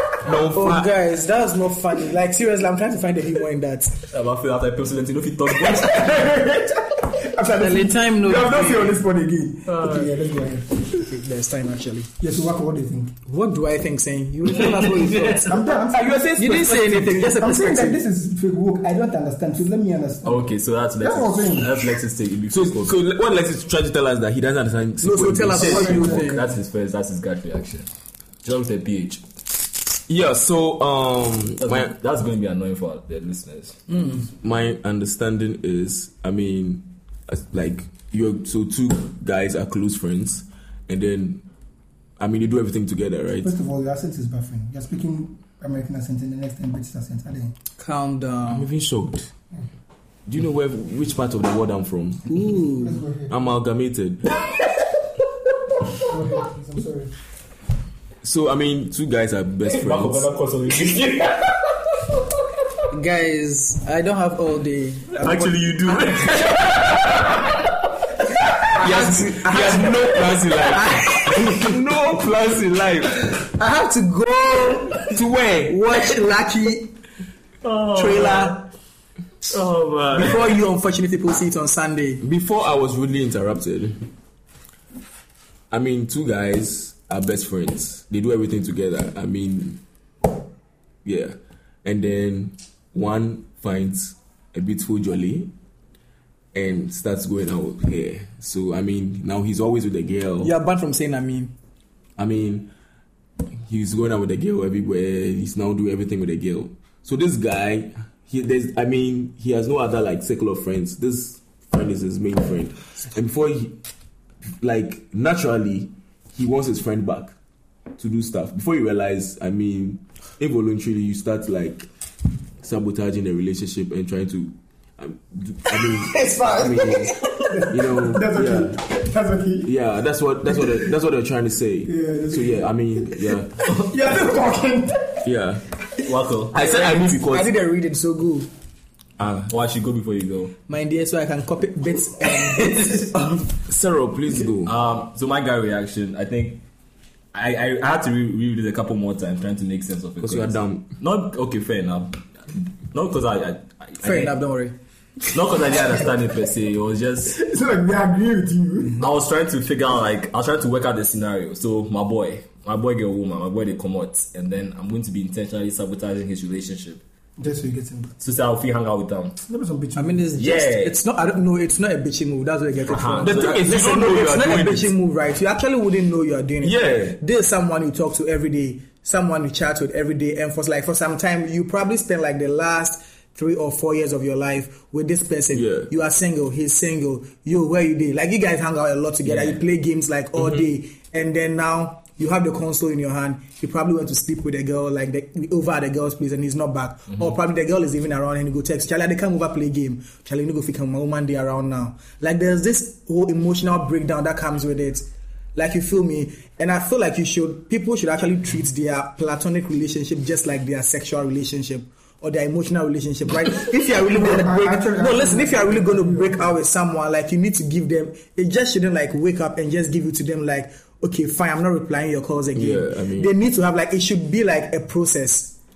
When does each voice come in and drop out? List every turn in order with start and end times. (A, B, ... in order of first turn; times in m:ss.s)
0:00.2-0:00.9 A
0:00.5-0:03.9 B
0:04.1-0:06.2 C
0:05.7-0:10.7 D
0:07.6-0:09.0 B
0:09.7-0:10.1 C
0:10.9-0:12.1 B
0:12.2-0:13.1 D
0:13.3-0:15.6 B
0:14.5-0:15.6 C
0:15.4-0:16.2 D
0:15.7-0:17.3 A
0:16.4-0:18.0 B
0:17.2-0:20.5 D
0:20.2-0:22.9 C
0:21.0-0:21.8 D
0:22.5-0:26.2 A
0:25.0-0:26.4 B
0:25.6-0:27.9 C
0:25.6-0:26.4 D
0:28.4-0:29.2 C
0:30.1-0:31.9 A
0:31.6-0:33.8 C
0:33.9-0:34.2 B
0:34.2-0:41.4 A
0:42.2-0:43.5 A
0:43.4-0:47.5 D
0:47.8-0:48.7 B
0:48.5-0:49.3 A
0:50.3-0:52.3 A
0:52.3-0:53.0 B
0:52.8-0:53.4 D
0:53.3-0:54.3 A
0:56.0-0:57.1 D
0:58.2-1:00.3 A
0:59.6-1:01.7 C
1:02.9-1:06.0 B
1:05.2-1:07.6 C
1:08.7-1:13.1 A
1:08.7-1:11.6 B
1:13.5-1:15.1 B
1:15.1-1:15.8 A
1:15.6-1:16.9 B
1:17.6-1:18.6 C
1:17.9-1:18.6 B
1:19.5-1:20.4 C
1:20.1-1:22.2 B
1:22.2-1:24.1 A
1:25.7-1:29.8 A
1:31.0-1:35.5 A
1:36.5-1:40.5 A
1:40.4-1:41.5 B
1:42.2-1:42.7 A
1:43.6-1:53.8 A
1:54.5-1:57.3 A
1:58.0-2:01.9 A
2:02.6-2:07.1 A
2:05.9-2:07.6 B
2:07.5-2:09.7 D
2:07.7-2:08.8 A
2:09.6-2:13.6 A
2:10.5-2:10.8 D
2:11.8-2:15.2 D
2:15.2-2:15.6 A
2:16.0-2:16.6 C
2:16.5-2:17.5 A
2:16.5-2:18.5 B
2:19.2-2:20.5 C
2:20.7-2:23.0 B
2:22.9-2:24.7 A
2:24.6-2:26.6 C
2:27.3-2:34.3 C
2:30.2-2:30.9 A
2:34.0-2:34.7 B
2:35.3-2:37.4 C
2:37.3-2:39.0 D
2:39.0-2:47.0 C
2:47.4-2:48.1 D
2:48.2-2:49.4 C
2:49.4-2:50.3 D
2:50.0-3:45.6 B
2:50.4-2:51.0 C
2:52.9-2:53.6 C
2:53.2-2:54.9 A
2:56.6-2:57.2 A
3:05.5-3:05.9 A
3:09.2-3:09.6 C
3:34.0-3:36.5 D
3:42.5-3:43.3 A